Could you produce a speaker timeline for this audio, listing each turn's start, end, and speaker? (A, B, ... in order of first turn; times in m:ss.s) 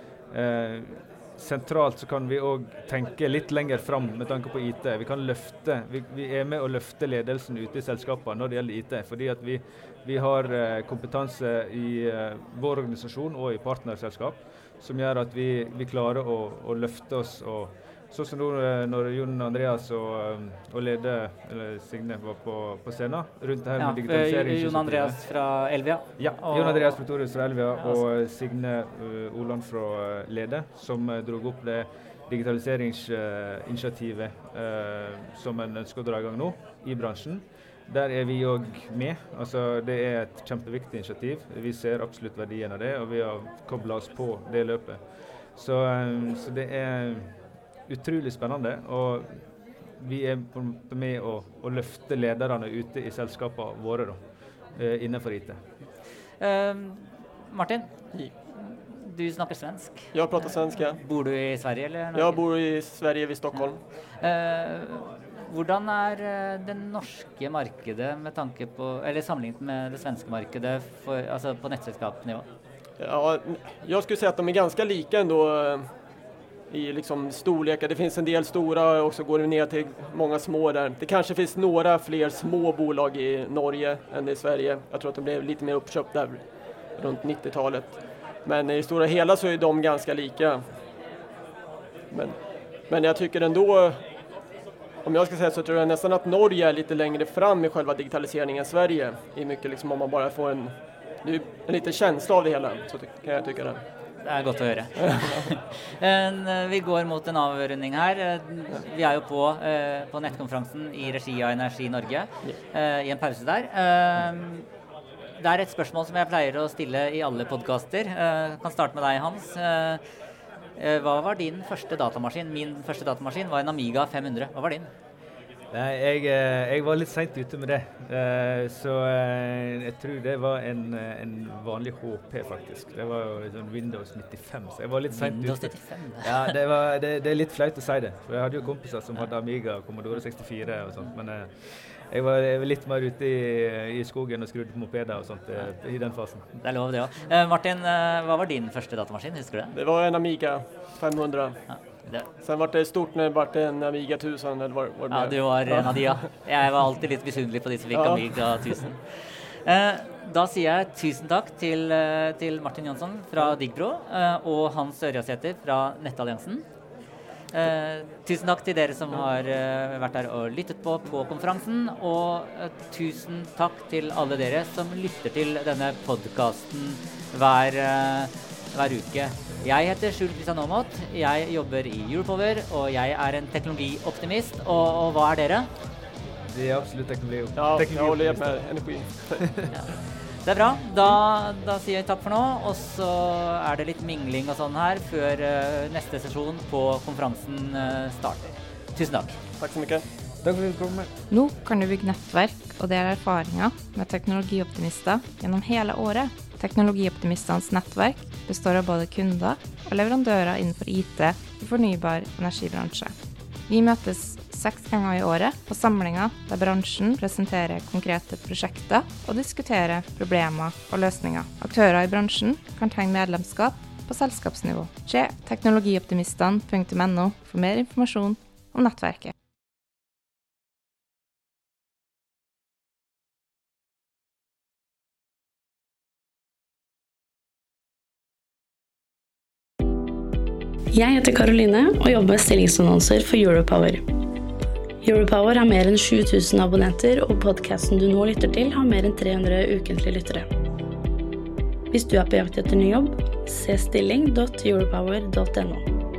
0:00.3-0:25.2 A
0:23.8-0:27.0 B
0:26.2-0:45.0 A
0:45.5-0:47.3 A
0:47.9-0:49.4 A
0:50.0-0:54.2 A
0:54.7-0:55.6 A
0:56.4-0:57.9 B
0:58.5-1:02.4 B
1:00.1-1:01.0 C
1:02.1-1:03.8 C
1:04.2-1:12.5 B
1:13.0-1:15.8 C
1:16.7-1:26.4 C
1:27.0-1:30.6 C
1:32.1-1:32.4 C
1:32.9-1:34.0 C
1:35.0-1:43.8 C
1:44.2-1:54.7 B
1:45.0-1:45.5 C
1:55.4-2:00.0 B
2:00.8-2:04.9 B
2:05.7-2:26.4 A
2:15.1-2:16.6 B
2:25.6-2:26.0 B
2:26.6-2:29.8 B
2:29.7-2:36.3 C
2:31.7-2:32.3 B
2:35.1-2:46.6 B
2:37.9-2:38.8 C
2:47.5-3:05.7 B
3:06.5-3:08.6 A
3:07.6-3:09.5 C
3:09.4-3:09.6 A
3:10.4-3:19.4 B
3:19.6-3:20.0 C
3:20.4-3:21.1 A
3:21.3-3:33.1 D
3:33.7-3:49.3 D
4:00.9-4:04.0 E
4:05.0-4:10.5 E
4:11.9-4:15.8 E